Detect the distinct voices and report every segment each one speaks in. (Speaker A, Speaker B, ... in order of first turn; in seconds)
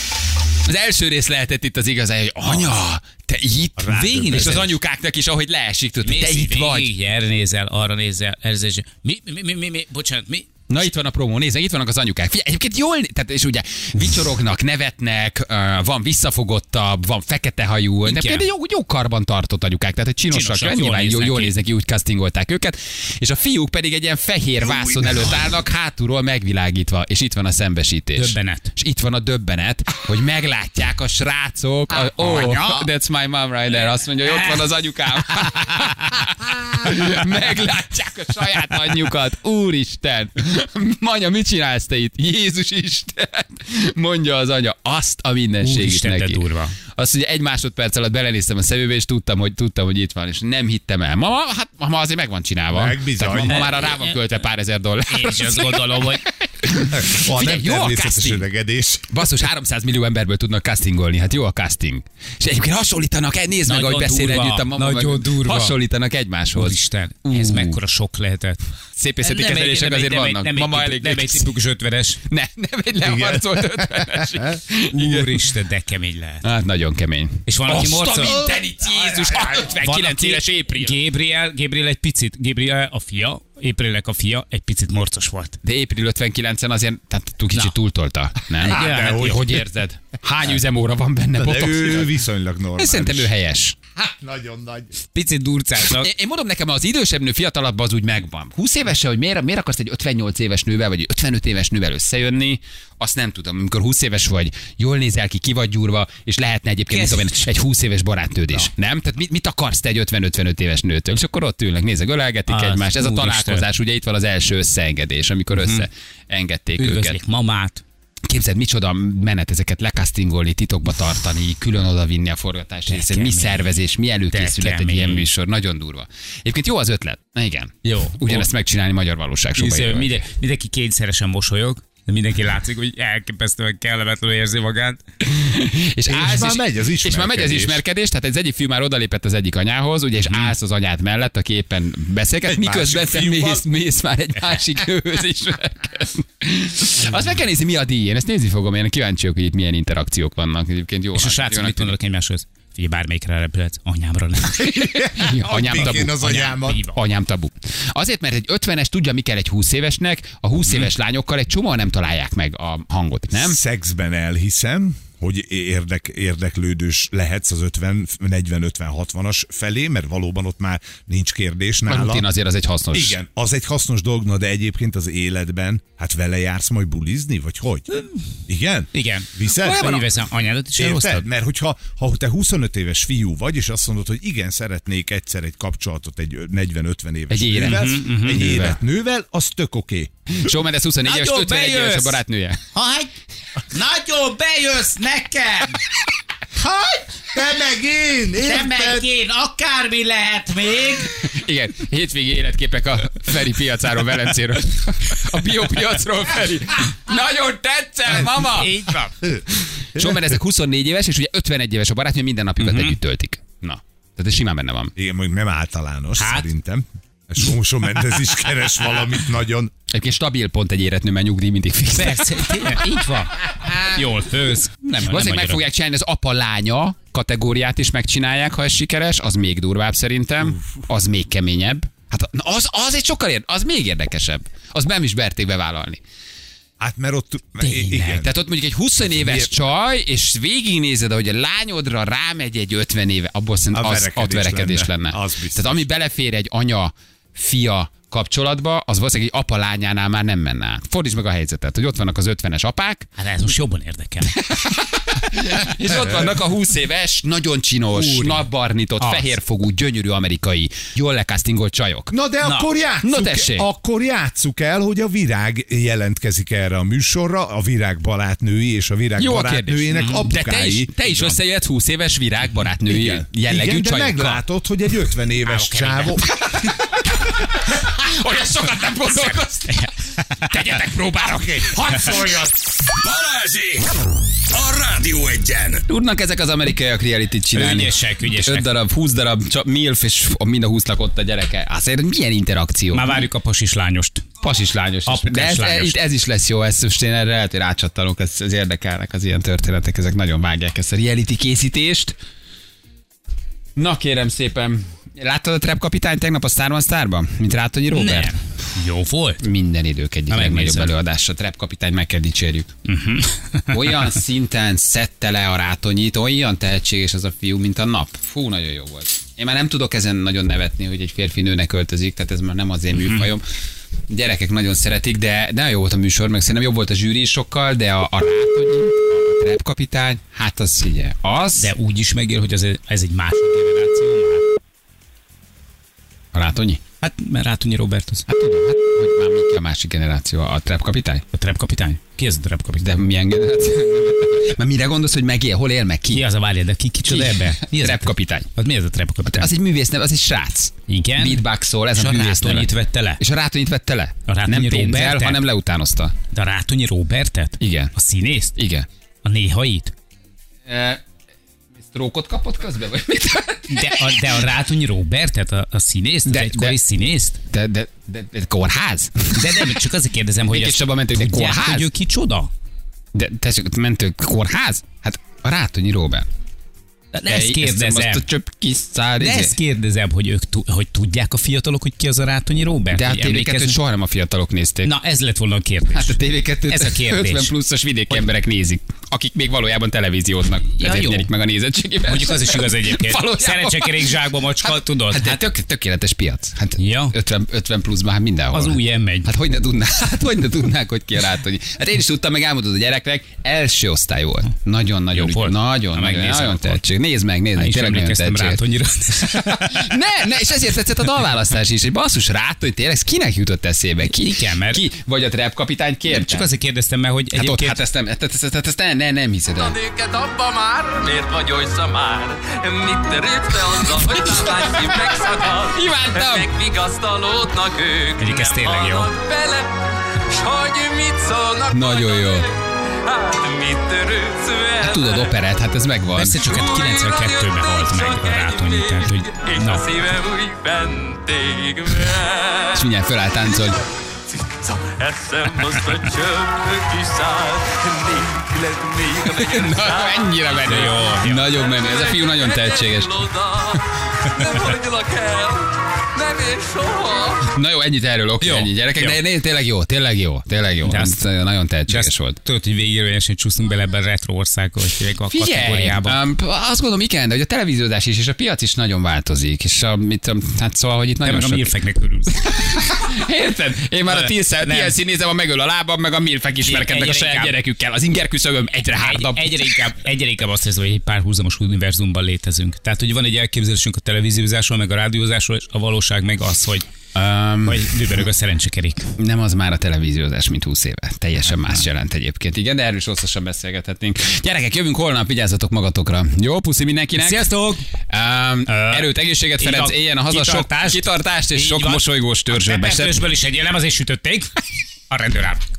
Speaker A: 0.7-6.9, 10.7-58.5, 59.1-67.8, 69.0-71.5, 72.3-75.5, 76.4-81.0, 85.6-92.2, 92.8-93.8, 95.9-117.2, 118.3-130.2, 135.2-151.9, 154.6-163.6, 171.9-173.2, 187.3-188.8, 190.3-192.6, 201.2-208.8, 209.9-214.9, 219.9-222.8, 223.6-224.0, 225.0-236.0, 237.6-253.1, 254.3-262.1, 263.0-263.7, 269.2-274.4, 276.4-279.9, 280.5-282.5, 285.9-293.2, 294.4-302.2, 303.8-308.4, 309.4-312.7, 313.7-323.4, 324.1-331.7, 336.3-336.8, 338.3-341.2, 342.8-346.3, 347.0-348.5, 349.2-356.1, 357.6-357.9, 358.6-358.9, 360.7-361.0, 361.8-364.5, 366.2-366.8, 367.5-369.8, 370.5-371.9, 373.1-376.3, 377.3-379.6, 382.9-384.9, 385.9-408.6, 409.2-416.5, 417.3-419.8, 424.0-426.5, 431.7-432.5, 434.8-436.4, 442.7-443.8, 449.2-453.3, 457.5-462.4, 465.3-471.7, 472.4-479.7, 487.1-488.0, 489.2-497.5, 498.1-503.3
Speaker B: 3.8-4.7, 52.7-53.7, 57.0-59.1, 73.0-74.5, 78.3-79.7, 88.6-89.4, 91.3-93.3, 94.0-95.0, 136.1-137.8, 142.5-143.6, 154.6-156.8, 163.3-172.3, 172.9-177.9, 178.5-180.1, 180.8-190.1, 196.6-199.1, 215.0-219.7, 236.8-238.3, 239.2-239.5, 243.7-245.8, 262.1-271.4, 272.9-276.3, 281.3-281.7
Speaker C: 3.9-4.7, 6.0-10.5, 18.1-18.5, 20.3-21.5, 24.8-25.3, 28.2-28.7, 32.0-32.9, 34.3-34.7, 35.2-35.9, 45.6-46.8, 53.4-54.1, 55.1-56.3, 63.7-65.8, 66.5-68.6, 69.2-72.2, 74.9-76.5, 77.5-78.4, 79.4-85.6, 88.6-89.6, 95.0-96.1, 106.9-107.4, 112.5-113.7, 115.6-115.9, 116.8-117.8, 122.9-123.8, 124.3-125.3, 127.8-128.5, 129.6-135.0, 151.2-155.0, 155.7-157.0, 178.9-181.3, 187.6-188.6, 191.0-192.2, 192.7-193.1, 193.7-195.8, 196.7-197.5, 198.4-201.3, 208.3-209.2, 212.6-213.0, 216.2-216.5, 221.9-225.6, 253.2-254.4, 257.9-258.5, 259.0-259.3, 262.4-262.7, 269.9-270.2, 275.4-276.2, 279.2-279.9, 287.6-288.7, 292.9-294.3, 295.1-296.0, 307.9-309.5, 310.3-310.9, 312.9-314.0, 331.6-334.5, 337.0-338.3, 341.3-342.9, 346.1-349.5, 350.9-353.2, 354.3-355.4, 356.3-358.6, 359.2-359.9, 363.7-367.4, 369.3-372.5, 377.1-378.2, 379.2-383.8, 384.8-387.5, 390.8-391.3, 392.1-395.4, 396.8-397.2, 398.5-399.3, 405.1-406.8, 407.6-409.9, 414.1-414.8, 416.1-417.8, 428.2-429.1, 436.1-439.9, 450.6-451.5, 458.4-459.2, 460.9-461.2, 461.9-466.2, 471.2-472.8, 474.1-475.0, 476.6-477.6, 479.0-486.9, 487.6-489.1, 491.5-491.8, 497.2-497.9, 498.7-505.6
Speaker D: 283.0-283.9, 284.5-285.9
Speaker E: 419.6-435.4, 436.4-442.9, 444.3-450.9, 451.5-457.5